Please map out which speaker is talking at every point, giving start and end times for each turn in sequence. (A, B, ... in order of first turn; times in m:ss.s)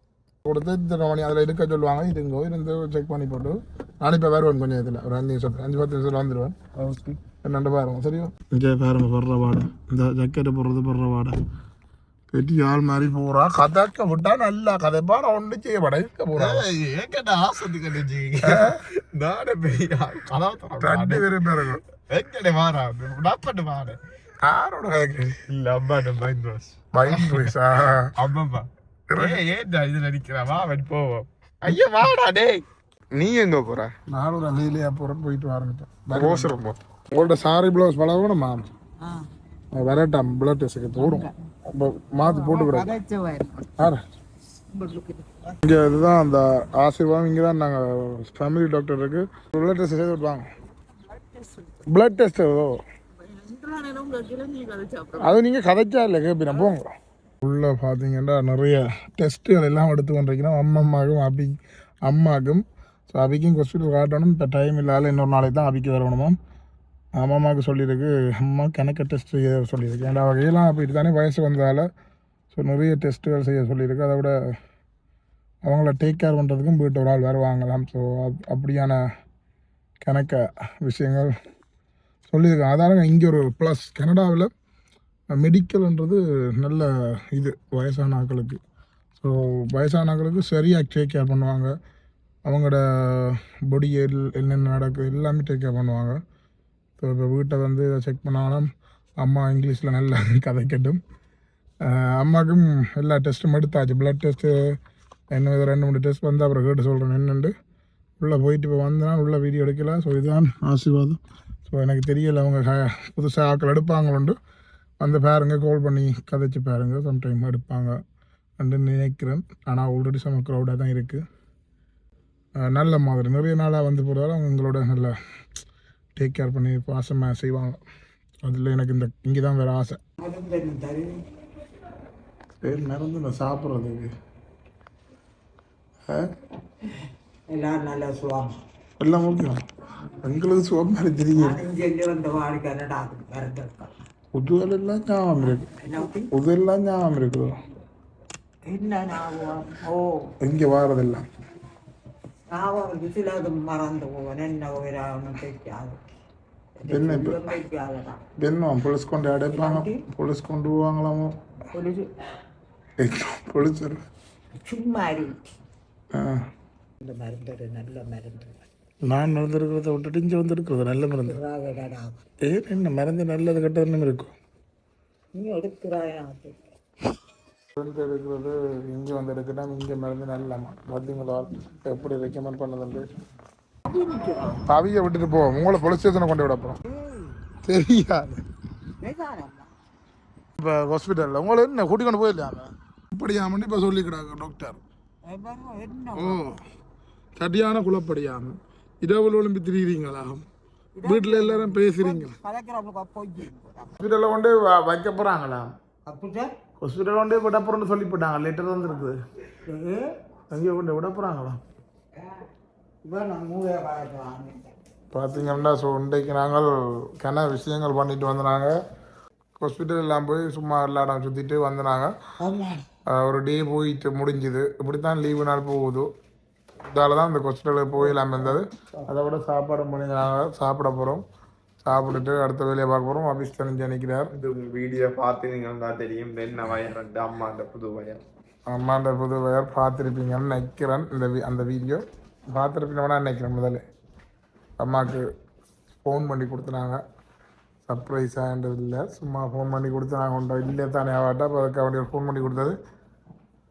0:00.4-0:06.6 A
0:06.8-0:07.2 B
0:07.4-0:11.4 A
0:12.3-0:16.7 A
0:16.4-0:21.3 B
0:18.4-0:18.8 A
0:20.8-0:21.8 A
0:22.0-0:24.0 B
0:24.4-0:25.4 A
0:25.5-0:27.6 B
0:26.9-0:28.1 A
0:28.2-0:32.6 B
0:29.1-0:29.4 A
0:33.1-0:33.9 B
0:34.1-0:38.6 A
0:36.1-0:36.8 B
0:39.7-0:42.9 A
0:42.2-0:43.7 C
0:44.7-0:45.3 D
0:45.6-0:50.5 A
0:51.1-0:51.5 D
0:51.9-0:52.8 A
0:53.2-0:55.4 C
0:55.2-0:56.9 A
0:56.5-0:56.7 C
0:57.4-1:06.4 A
1:07.2-1:11.8 A
1:12.5-1:14.3 A
1:15.6-1:19.0 A
1:20.0-1:21.3 A
1:22.3-1:24.5 A
1:25.3-1:28.6 A
1:29.2-1:31.7 A
1:32.4-1:36.2 A
1:37.0-1:41.0 A
1:41.8-1:44.8 A
1:45.3-1:47.5 A
1:48.2-1:54.3 A
1:55.0-1:58.0 A
1:58.6-2:01.2 A
2:02.6-2:05.1 A
2:06.2-2:07.8 A
2:08.4-2:10.0 A
2:10.2-2:11.2 D
2:12.6-2:14.1 A
2:17.5-2:18.5 D
2:19.0-2:19.6 A
2:20.2-2:21.6 A
2:21.4-2:23.9 D
2:24.3-2:25.7 A
2:25.8-2:26.3 D
2:26.3-2:27.5 A
2:28.7-2:30.3 D
2:30.4-2:31.2 A
2:32.5-2:36.0 D
2:36.8-2:38.2 D
2:36.9-2:37.4 A
2:38.4-2:41.3 A
2:39.5-2:40.0 D
2:41.7-2:42.1 D
2:43.0-2:44.0 A
2:44.6-2:45.4 D
2:46.1-2:46.4 A
2:47.0-2:48.6 D
2:49.0-2:51.4 A
2:51.2-2:52.2 D
2:52.4-2:54.3 A
2:55.3-2:56.6 D
2:57.8-3:03.1 A
3:03.9-3:04.5 D
3:04.4-3:06.8 A
3:06.9-3:07.4 D
3:07.6-3:08.4 A
3:09.0-3:09.7 D
3:10.6-3:14.8 A
3:15.2-3:16.4 D
3:16.1-3:16.6 A
3:17.4-3:20.4 A
3:20.9-3:24.0 D
3:21.0-3:22.4 A
3:24.0-3:25.7 A
3:26.0-3:26.5 D
3:26.8-3:29.2 A
3:29.6-3:30.1 D
3:30.5-3:31.6 A
3:32.2-3:32.4 D
3:33.0-3:34.8 D
3:35.1-3:38.8 A
3:39.6-3:42.1 A
3:42.4-3:42.8 D
3:43.1-3:46.1 A
3:46.9-3:51.2 A
3:48.0-3:48.6 D
3:51.8-3:54.3 A
3:54.3-3:58.2 B
3:58.7-4:03.8 A
4:04.8-4:05.2 A
4:06.0-4:07.0 A
4:07.9-4:12.7 A